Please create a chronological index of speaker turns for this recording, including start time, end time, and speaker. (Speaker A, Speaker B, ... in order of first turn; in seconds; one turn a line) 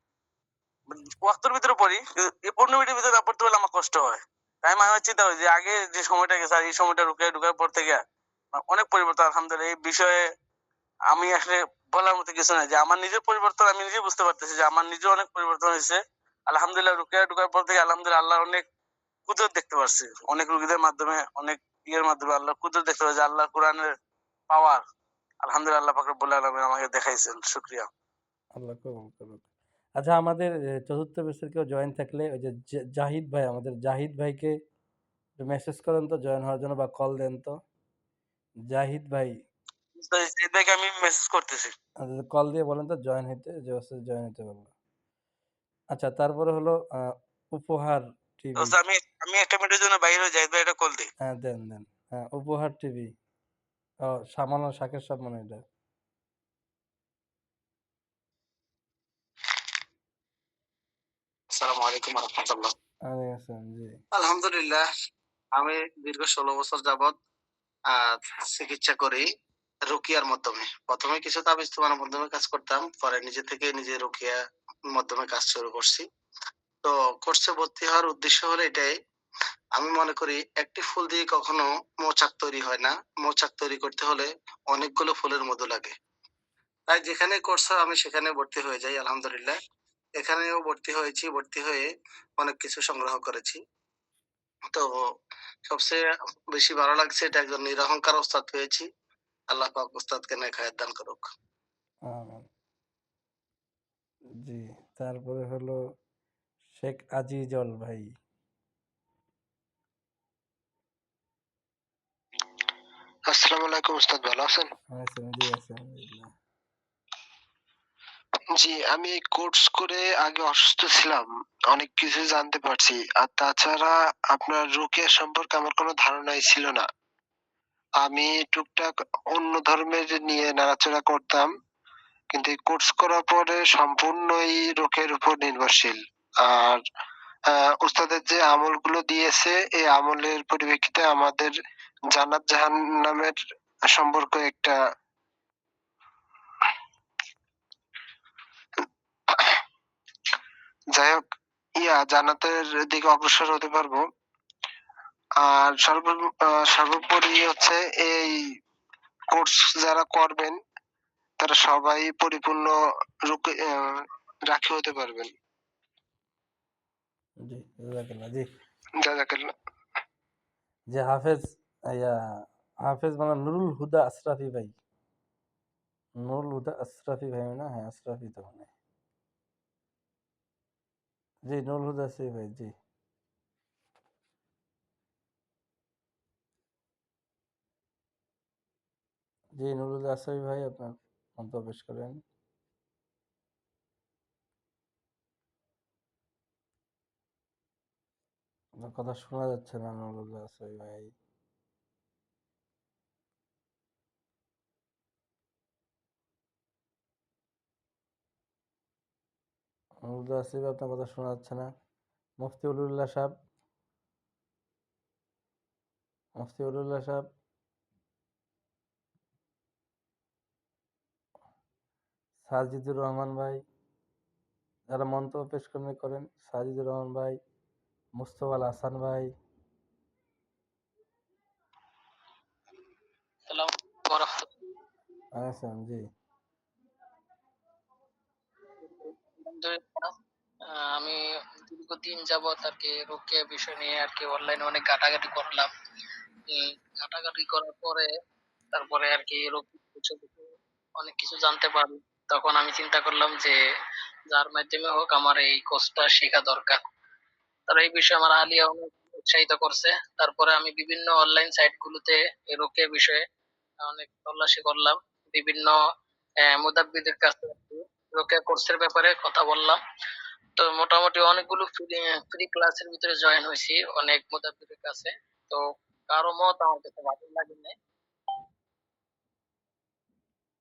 Speaker A: 0.9-8.0
Speaker A: 8.5-10.2
Speaker A: 11.1-18.6
Speaker A: 19.3-23.9
Speaker A: 24.5-24.8
Speaker A: 25.4-27.9
Speaker B: 28.6-29.4
Speaker B: 30.0-34.5
Speaker B: 35.4-37.5
Speaker B: 38.7-39.3
Speaker A: 40.0-41.7
Speaker B: 42.0-44.7
Speaker B: 45.9-46.8
Speaker B: 47.5-48.8
Speaker A: 48.6-51.1
Speaker B: 51.2-53.1
Speaker B: 54.1-55.6
Speaker C: 61.5-62.7
Speaker B: 63.1-64.0
Speaker C: 64.1-64.8
Speaker C: 65.5-67.1
Speaker C: 67.9-69.2
Speaker C: 69.9-74.4
Speaker C: 74.9-76.0
Speaker C: 76.8-78.9
Speaker C: 79.8-85.9
Speaker C: 86.9-89.5
Speaker C: 90.2-91.9
Speaker C: 92.4-93.6
Speaker C: 94.7-95.0
Speaker C: 95.7-96.0
Speaker C: 96.5-98.9
Speaker C: 99.5-101.3
Speaker B: 102.1-102.5
Speaker B: 104.4-105.8
Speaker B: 106.8-108.1
Speaker D: 113.3-114.7
Speaker B: 114.9-116.3
Speaker D: 118.5-126.8
Speaker D: 128.0-131.5
Speaker D: 132.3-136.8
Speaker D: 137.5-141.5
Speaker D: 142.1-143.3
Speaker D: 143.9-144.8
Speaker D: 149.3-149.6
Speaker D: 150.9-151.2
Speaker D: 151.8-154.0
Speaker D: 155.4-158.4
Speaker D: 159.3-160.6
Speaker D: 161.4-162.7
Speaker D: 163.3-165.3
Speaker B: 167.4-168.5
Speaker D: 169.0-169.5
Speaker B: 170.9-172.1
Speaker B: 172.8-174.7
Speaker B: 176.2-178.7
Speaker B: 181.5-182.7
Speaker B: 189.6-192.2
Speaker B: 198.8-201.1
Speaker B: 210.0-211.7
Speaker B: 212.4-213.3
Speaker B: 216.4-217.2
Speaker B: 222.4-223.6
Speaker B: 224.9-227.4
Speaker B: 228.2-229.3
Speaker E: 233.5-234.5
Speaker B: 235.4-236.0
Speaker E: 238.8-240.1
Speaker E: 240.7-245.7
Speaker E: 246.5-248.1
Speaker E: 248.7-253.6
Speaker E: 254.3-256.8
Speaker E: 257.7-263.2
Speaker E: 263.8-265.8
Speaker E: 266.4-269.8
Speaker E: 270.6-277.7